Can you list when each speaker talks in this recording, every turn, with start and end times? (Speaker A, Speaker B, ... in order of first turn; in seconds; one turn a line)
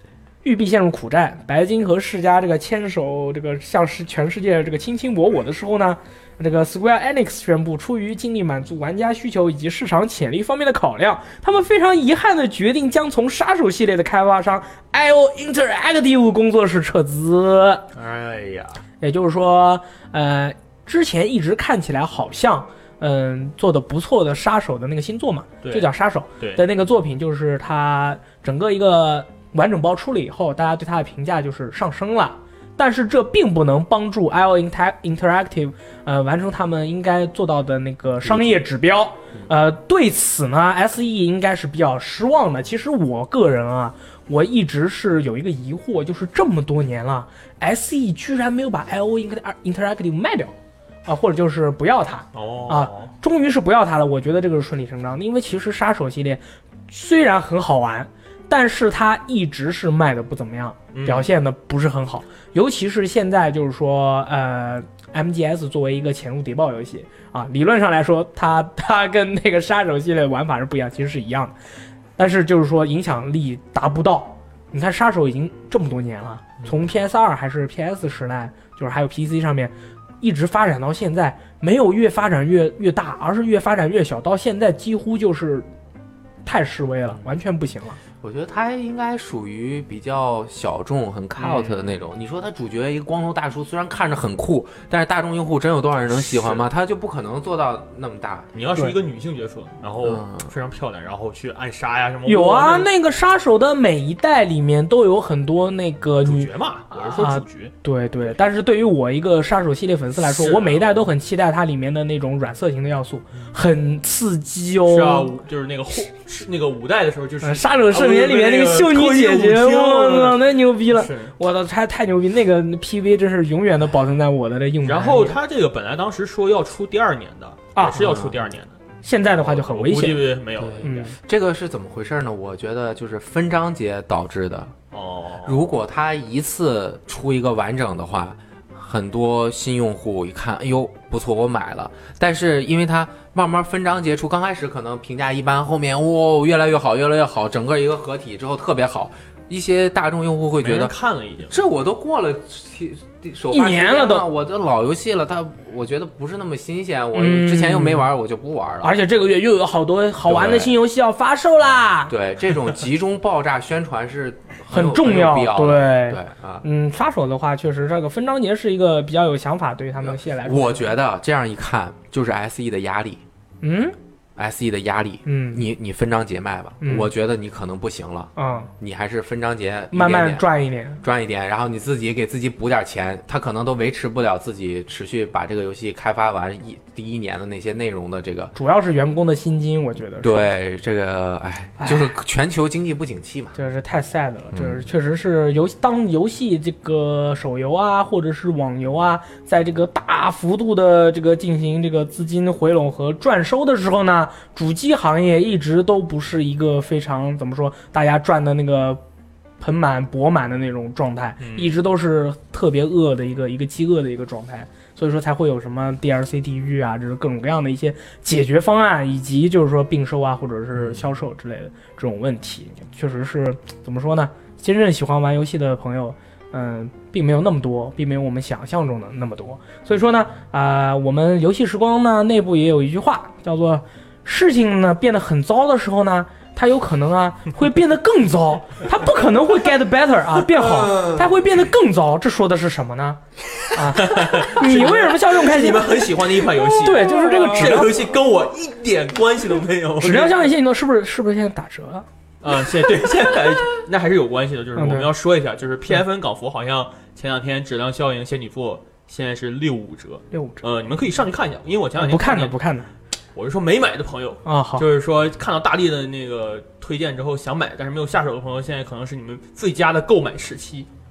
Speaker A: 0.4-17.8
Speaker B: 17.9-18.8
Speaker A: 19.0-50.5
Speaker A: 51.0-71.5
Speaker B: 52.3-53.1
Speaker B: 60.9-61.3
Speaker A: 72.2-85.7
Speaker A: 86.4-88.0
Speaker C: 88.2-98.5
Speaker B: 91.4-91.8
Speaker B: 96.2-96.6
Speaker B: 98.5-102.9
Speaker C: 100.0-100.5
Speaker A: 102.2-115.3
Speaker B: 106.2-107.7
Speaker B: 110.2-111.1
Speaker B: 114.8-121.3
Speaker A: 117.4-125.4
Speaker B: 124.8-128.8
Speaker A: 127.7-128.2
Speaker C: 127.9-128.3
Speaker A: 129.0-131.1
Speaker B: 129.4-131.1
Speaker C: 130.6-134.7
Speaker B: 134.9-135.6
Speaker C: 135.4-150.9
Speaker B: 150.6-151.5
Speaker C: 151.5-158.9
Speaker A: 153.5-154.2
Speaker A: 157.1-158.1
Speaker A: 158.8-162.1
Speaker C: 160.2-160.7
Speaker C: 162.1-166.6
Speaker A: 164.7-170.9
Speaker C: 170.0-173.2
Speaker A: 173.6-173.9
Speaker C: 174.3-180.4
Speaker A: 175.2-175.6
Speaker A: 176.8-177.1
Speaker A: 178.4-178.7
Speaker A: 179.9-181.0
Speaker C: 181.0-188.5
Speaker A: 188.5-190.5
Speaker C: 190.2-193.5
Speaker A: 191.8-192.1
Speaker A: 193.5-209.0
Speaker C: 194.5-194.8
Speaker A: 209.6-243.2
Speaker B: 211.4-211.7
Speaker A: 243.7-248.0
Speaker B: 243.9-250.4
Speaker A: 250.0-252.0
Speaker B: 252.4-262.6
Speaker A: 254.8-255.1
Speaker A: 260.3-260.6
Speaker A: 262.0-262.9
Speaker B: 263.3-270.9
Speaker A: 264.4-264.9